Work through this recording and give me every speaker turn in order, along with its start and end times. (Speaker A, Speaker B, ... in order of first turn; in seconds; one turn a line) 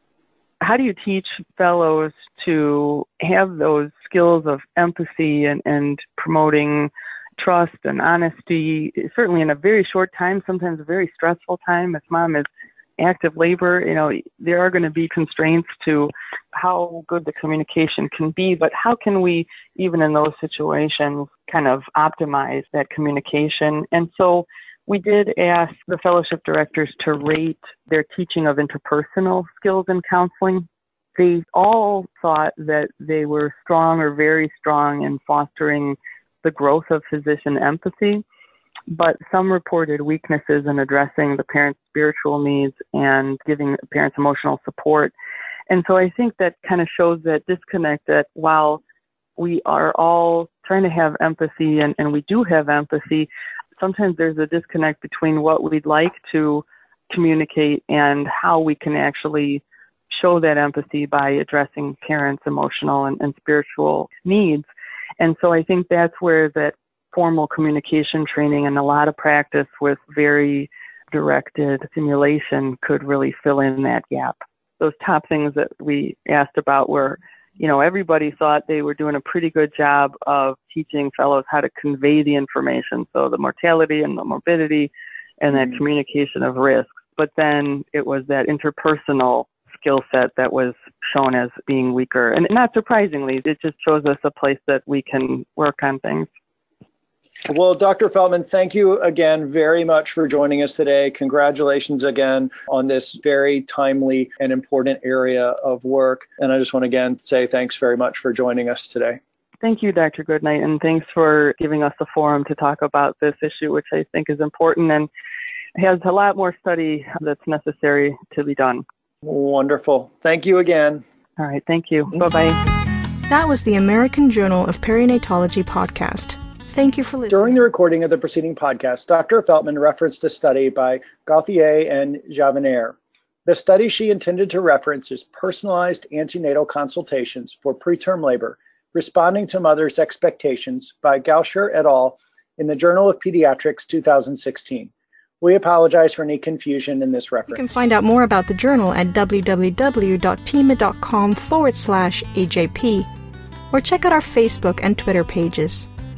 Speaker A: 0.6-12.5
Speaker A: 13.0-38.2
Speaker A: 38.9-45.1
Speaker A: 45.7-48.8
Speaker A: 49.4-64.7
Speaker A: 65.2-84.9
Speaker A: 85.4-96.3
Speaker B: 97.5-109.2
Speaker A: 109.6-115.1
Speaker A: 115.8-118.8
Speaker B: 119.2-121.0
Speaker A: 121.4-122.6
Speaker C: 123.3-127.6
Speaker B: 127.3-147.8
Speaker C: 147.5-153.1
Speaker C: 153.7-155.9